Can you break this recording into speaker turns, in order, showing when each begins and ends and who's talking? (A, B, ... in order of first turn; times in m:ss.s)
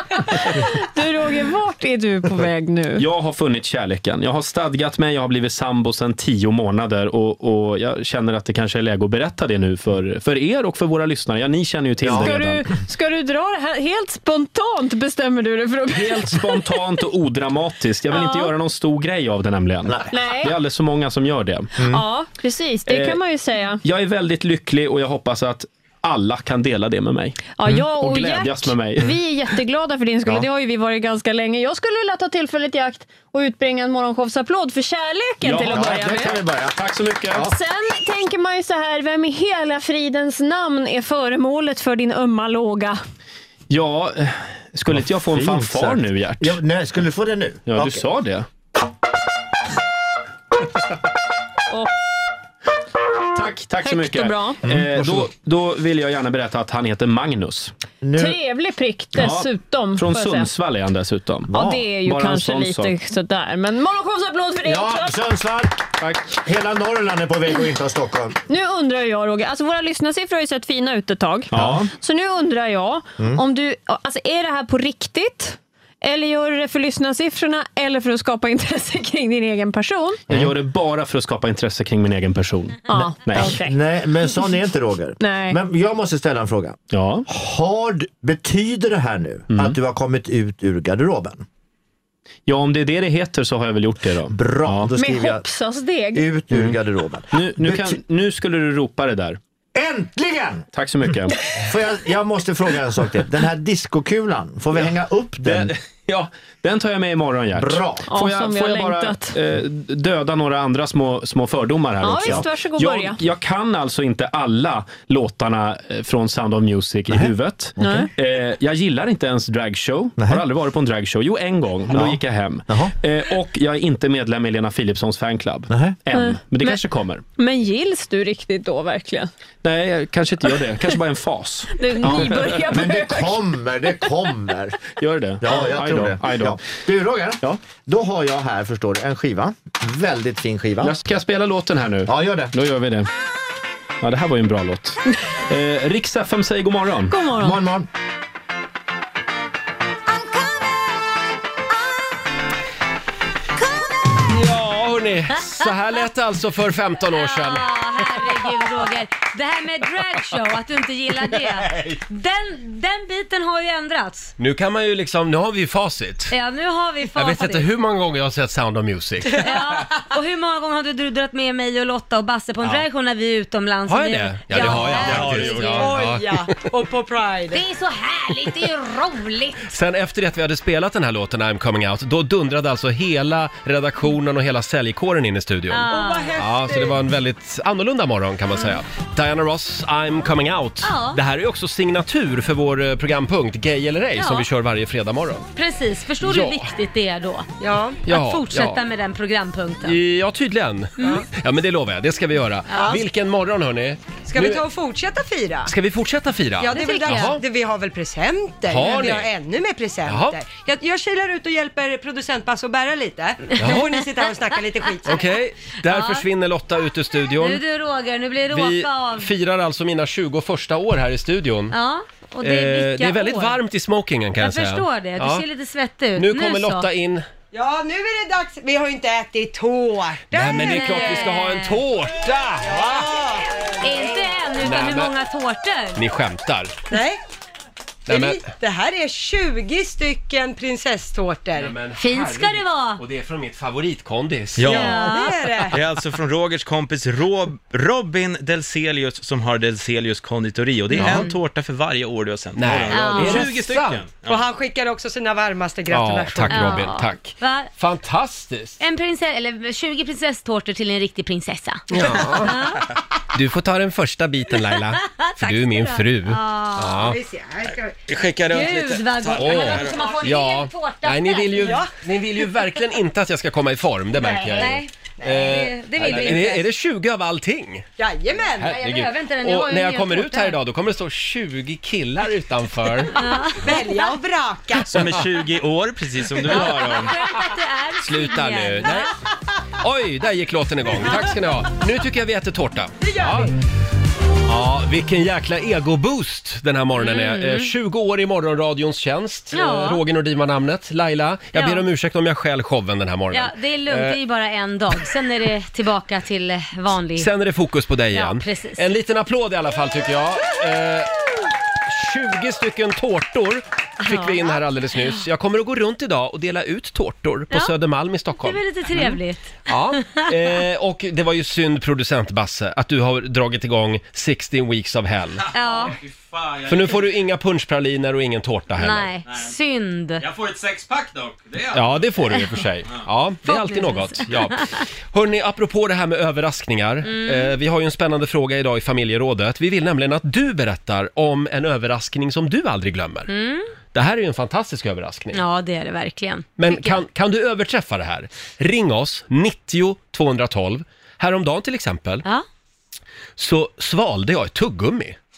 0:00.1-0:03.0 A
0:03.0-0:12.7 B
0:12.0-0:12.4 C
0:12.1-0:16.6 A
0:15.9-0:21.8 B
0:18.1-0:18.5 A
0:19.9-0:20.3 C
0:20.1-0:20.5 A
0:21.8-0:22.0 C
0:21.8-0:23.8 A
0:22.9-0:23.2 B
0:23.8-0:29.2 B
0:27.5-0:36.4 A
0:35.4-0:37.6 B
0:35.7-0:36.7 C
0:37.4-0:43.0 A
0:43.7-0:46.6 B
0:44.9-0:48.0 C
0:47.6-0:48.5 B
0:53.3-0:57.7 B
0:53.8-0:54.6 A
0:54.6-0:55.3 C
0:58.0-0:58.4 C
0:58.2-1:00.5 A
0:59.1-1:02.9 B
1:01.5-1:01.9 C
1:01.5-1:05.2 A
1:04.6-1:08.4 C
1:08.5-1:20.2 A
1:11.5-1:11.8 C
1:11.5-1:11.9 B
1:20.3-1:23.6 B
1:22.9-1:24.3 A
1:23.3-1:31.4 C
1:25.2-1:25.6 A
1:26.9-1:27.2 B
1:29.5-1:29.8 B
1:32.4-1:35.0 B
1:34.2-1:35.4 C
1:34.9-1:36.4 A
1:36.1-1:38.0 C
1:36.5-1:39.4 B
1:39.7-1:40.7 C
1:40.7-1:41.4 B
1:41.5-1:45.7 C
1:44.7-2:07.2 B
1:47.6-1:48.0 C
1:48.0-1:49.3 A
1:52.0-1:53.2 A
1:52.2-1:52.5 C
1:57.1-1:58.1 C
1:57.8-1:58.1 A
2:00.2-2:00.4 C
2:01.9-2:02.9 C
2:05.7-2:06.0 C
2:06.1-2:06.8 A
2:07.4-2:09.3 A
2:09.6-2:12.8 B
2:11.7-2:13.5 A
2:12.0-2:14.8 C
2:14.9-2:16.7 B
2:15.4-2:21.0 C
2:17.4-2:17.7 B
2:20.8-2:23.1 B
2:22.0-2:22.5 C
2:24.0-2:27.3 B
2:27.1-2:27.6 A
2:27.3-2:27.9 C
2:34.3-2:38.2 D
2:37.1-2:44.3 E
2:41.5-2:42.0 D
2:44.4-2:46.3 D
2:46.3-2:47.7 E
2:47.1-2:49.5 D
2:49.4-2:55.9 E
2:53.9-2:56.5 D
2:54.6-2:56.0 F
2:55.2-2:57.6 G
2:57.5-2:59.7 E
2:59.7-3:15.4 D
3:05.7-3:06.3 E
3:05.9-3:07.0 G
3:10.8-3:11.2 E
3:14.2-3:14.4 E
3:15.6-3:17.4 E
3:16.2-3:16.7 D
3:17.6-3:18.0 G
3:18.0-3:18.8 D
3:18.1-3:20.0 E
3:19.8-3:24.6 D
3:22.7-3:23.0 G
3:24.2-3:25.7 G
3:25.6-3:27.4 D
3:26.6-3:35.3 G
3:26.7-3:27.3 E
3:28.7-3:29.3 D
3:30.0-3:30.4 D
3:33.6-3:33.9 D
3:35.0-3:37.6 D
3:35.8-3:36.2 E
3:37.4-3:39.3 E
3:38.5-3:41.8 D
3:41.7-3:43.6 E
3:42.4-3:45.4 D
3:44.4-3:46.9 E
3:46.2-3:47.2 D
3:47.5-3:51.3 G
3:50.3-3:53.1 D
3:50.5-3:51.8 E
3:52.6-3:54.4 G
3:53.8-3:56.0 E
3:54.6-3:55.1 D
3:55.9-3:56.7 D
3:56.9-3:57.2 G
3:58.1-3:58.5 D
3:58.1-4:01.7 G
4:01.5-4:05.1 D
4:01.9-4:03.0 E
4:04.6-4:05.1 F
4:04.7-4:05.3 E
4:04.7-4:05.8 G
4:05.7-4:14.4 F
4:10.9-4:11.3 E
4:10.9-4:11.3 D
4:12.6-4:14.0 D
4:12.9-4:13.5 E
4:14.3-4:16.8 G
4:15.9-4:18.8 D
4:16.5-4:17.7 E
4:18.8-4:22.9 E
4:21.9-4:22.6 D
4:23.3-4:27.2 D
4:25.2-4:27.1 E
4:27.0-4:27.9 G
4:28.1-4:30.2 F
4:28.5-4:31.8 E
4:29.3-4:37.8 D
4:31.6-4:31.9 G
4:34.2-4:36.6 G
4:34.5-4:36.6 E
4:38.0-4:38.7 G
4:38.6-4:43.2 D
4:38.6-4:40.6 E
4:43.2-4:43.8 E
4:43.6-4:44.9 G
4:44.8-4:47.1 F
4:46.5-4:47.1 D
4:46.5-4:49.1 E
4:48.0-4:49.1 D
4:49.8-4:53.5 D
4:53.0-4:53.5 G
4:54.5-5:04.2 D
4:57.0-4:57.7 E
4:59.5-5:00.0 E
5:01.5-5:01.8 E
5:03.3-5:07.3 E
5:07.2-5:11.2 D
5:08.1-5:08.8 E
5:11.8-5:25.5 D
5:14.0-5:14.4 E
5:18.4-5:19.6 E
5:25.5-5:27.0 F
5:25.5-5:26.0 E
5:26.7-5:29.1 D
5:28.8-5:30.2 E
5:29.2-5:29.5 F
5:30.2-5:32.2 F
5:31.7-5:43.3 D
5:33.4-5:34.8 E
5:37.0-5:37.5 E
5:43.3-5:43.7 E
5:43.9-5:45.4 D
5:45.3-5:47.0 E
5:46.6-5:52.2 D
5:53.4-5:55.2 D